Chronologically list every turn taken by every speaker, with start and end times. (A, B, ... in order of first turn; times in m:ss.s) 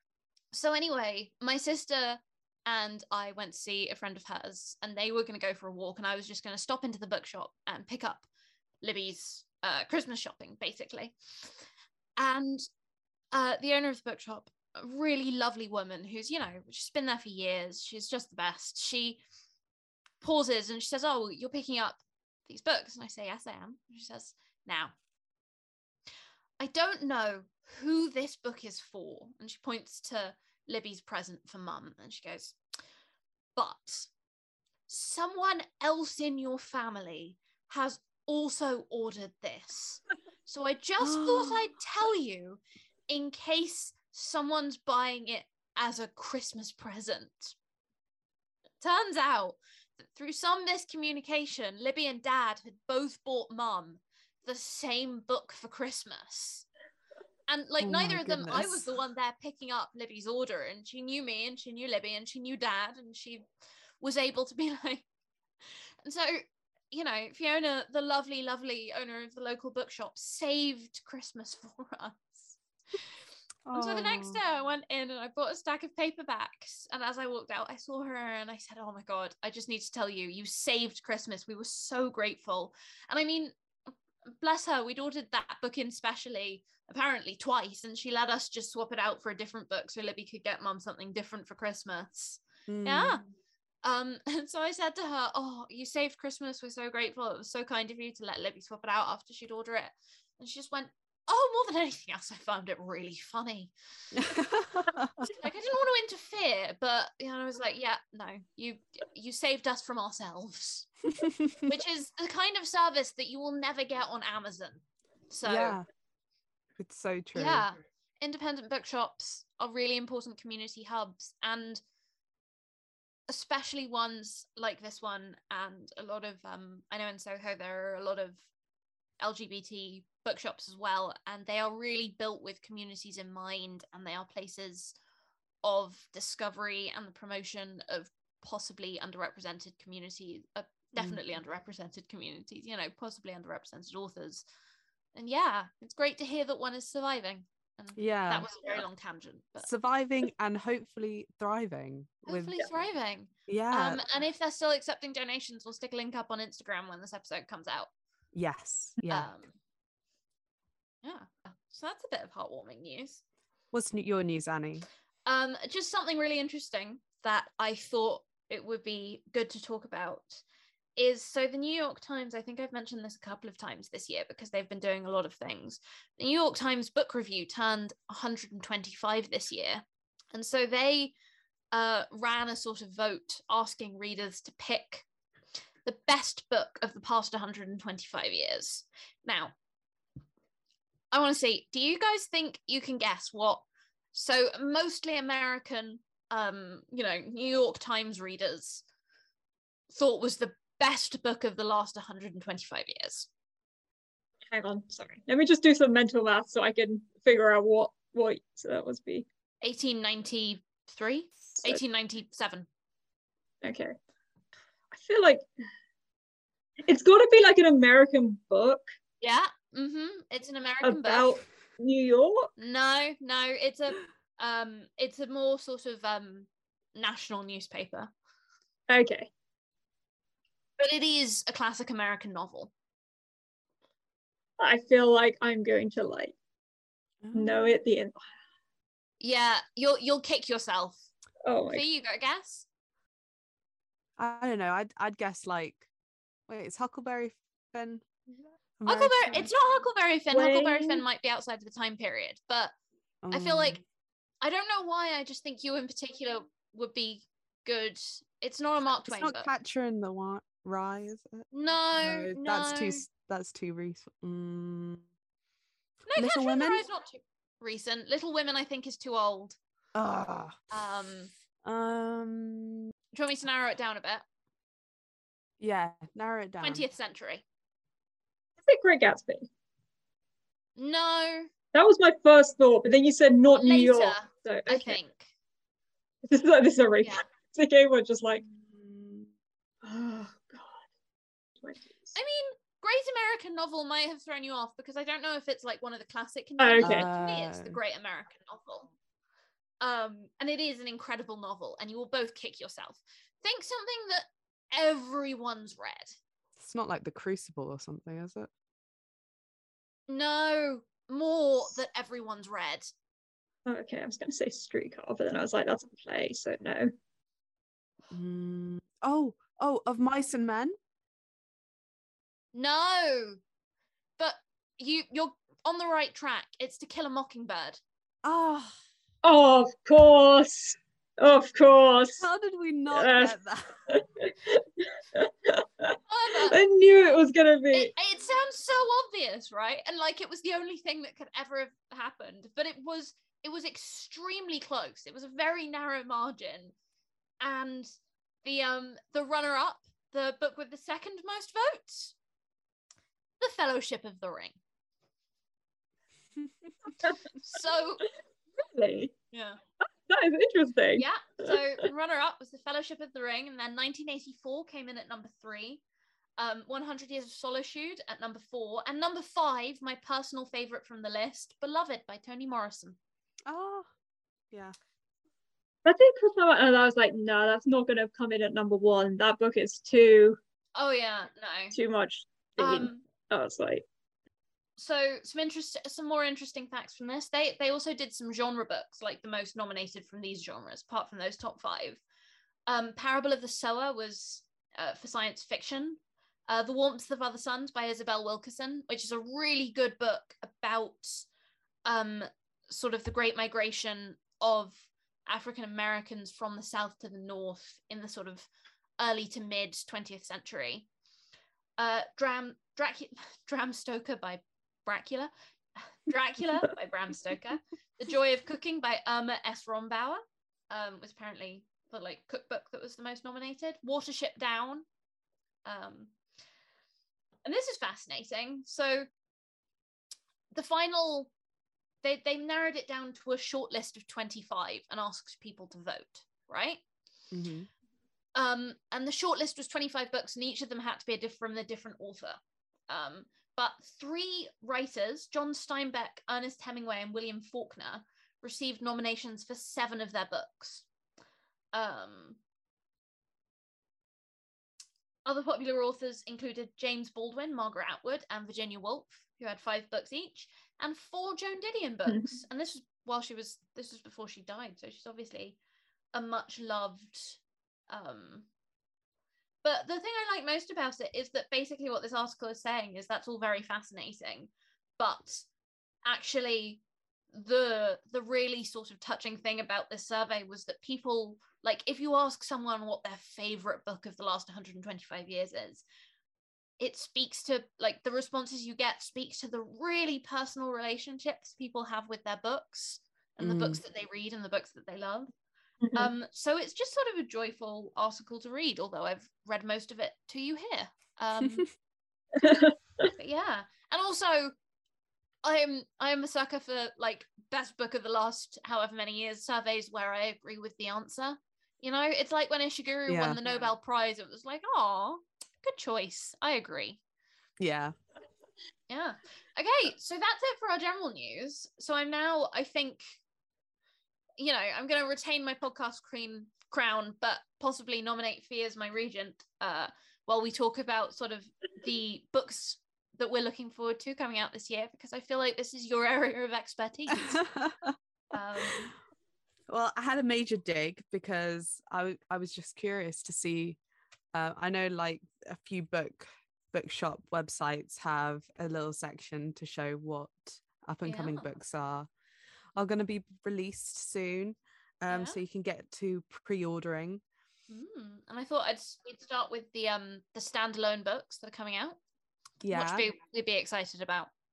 0:00.5-0:08.3 A
0:08.8-0:11.5 A
0:12.2-0:12.6 A
0:13.3-0:19.2 A
0:20.2-0:25.0 A
0:26.6-0:32.6 A
0:33.6-0:34.1 A
0:34.9-0:47.6 A
0:41.0-0:41.6 B
0:48.8-0:56.7 A
0:57.5-1:03.4 A
0:57.8-0:58.9 B
1:04.0-1:05.0 A
1:05.6-1:12.6 A
1:13.7-1:14.4 B
1:13.7-1:23.6 A
1:24.3-1:33.2 A
1:32.7-1:33.2 B
1:33.8-1:43.7 A
1:44.1-1:45.3 B
1:45.2-1:50.9 A
1:51.2-1:51.7 B
1:51.6-1:55.8 A
1:55.4-1:55.9 B
1:56.8-1:57.7 B
1:57.3-2:01.8 A
2:03.3-2:08.5 A
2:09.2-2:15.0 A
2:15.6-2:24.4 A
2:25.2-2:29.7 A
2:28.0-2:28.5 B
2:29.6-2:32.6 B
2:32.3-2:37.9 A
2:33.5-2:34.0 B
2:38.3-2:39.3 B
2:39.1-2:39.5 A
2:41.0-2:43.2 A
2:43.7-2:44.9 B
2:45.3-2:50.4 A
2:51.0-3:01.1 A
3:01.7-3:05.1 A
3:05.8-3:09.5 A
3:11.1-3:18.8 A
3:19.9-3:23.3 A
3:24.5-3:29.3 C
3:29.6-3:32.7 A
3:33.6-3:34.0 C
3:34.9-3:35.4 C
3:36.8-3:38.9 C
3:39.2-3:41.3 A
3:40.8-3:42.5 C
3:42.6-3:48.1 A
3:48.9-3:49.3 C
3:50.8-3:52.7 A
3:54.6-3:56.4 C
3:57.2-3:57.7 B
3:57.3-3:58.2 C
3:59.2-4:01.1 A
4:01.4-4:01.8 C
4:01.7-4:02.7 A
4:04.2-4:05.9 B
4:06.5-4:08.1 B
4:08.8-4:09.5 B
4:08.9-4:12.7 A
4:10.3-4:11.0 C
4:13.2-4:13.8 B
4:13.3-4:13.8 A
4:14.4-4:19.5 A
4:19.1-4:21.5 B
4:21.5-4:23.1 A
4:22.0-4:25.1 B
4:26.1-4:29.6 A
4:26.2-4:26.8 B
4:29.9-4:30.7 B
4:30.7-4:31.3 A
4:31.6-4:32.9 B
4:33.1-4:34.2 A
4:35.6-4:36.8 B
4:36.6-4:37.4 A
4:38.6-4:39.5 C
4:40.8-4:41.5 A
4:41.7-4:45.0 C
4:43.5-4:45.3 A
4:46.2-4:48.4 C
4:48.6-4:49.3 B
4:49.8-4:50.8 C
4:51.6-4:52.2 C
4:52.2-4:58.9 A
4:56.6-4:57.1 C
4:56.8-4:57.8 B
4:59.8-5:06.2 A
5:06.6-5:08.5 B
5:10.1-5:12.9 A
5:13.7-5:16.9 C
5:18.1-5:20.8 B
5:22.5-5:23.4 A
5:24.2-5:27.8 A
5:28.2-5:28.8 B
5:29.2-5:32.3 C
5:32.2-5:33.8 B
5:32.9-5:33.4 C
5:33.9-5:37.9 C
5:36.1-5:36.6 A
5:37.7-5:46.7 A
5:47.4-5:47.9 A
5:48.4-5:52.2 A
5:53.4-5:54.6 A
5:57.1-5:58.1 A
5:58.6-5:59.1 C
5:59.3-5:59.6 A
6:00.1-6:01.8 C
6:01.0-6:05.8 A
6:06.4-6:13.0 A
6:13.5-6:13.9 B
6:15.8-6:20.4 C
6:20.8-6:21.8 A
6:21.7-6:23.8 C
6:22.6-6:23.0 A
6:24.8-6:32.0 A
6:32.7-6:41.3 A
6:41.9-6:50.9 A
6:51.8-7:04.8 A
7:05.6-7:06.1 A
7:07.4-7:09.1 A
7:10.5-7:11.3 A
7:12.0-7:16.8 A
7:17.3-7:17.7 B
7:18.4-7:30.9 A
7:31.7-7:32.4 A
7:35.2-7:45.6 A
7:42.1-7:42.4 C
7:46.1-7:48.5 A
7:49.6-7:55.5 A
7:56.0-8:05.8 A
8:06.8-8:15.3 A
8:13.4-8:13.8 B
8:15.9-8:21.7 A
8:21.4-8:21.7 B
8:22.4-8:22.7 C
8:23.2-8:24.5 A
8:25.4-8:37.0 A
8:33.1-8:33.4 B
8:37.6-8:37.9 B
8:38.9-8:43.0 A
8:44.4-8:57.4 A
8:57.2-8:58.0 B
8:58.3-8:58.9 A
8:59.7-9:03.8 B
9:04.3-9:12.1 B
9:11.0-9:11.5 A
9:12.8-9:17.2 B
9:15.1-9:15.4 A
9:17.7-9:22.0 A
9:22.6-9:23.1 B
9:22.6-9:24.3 A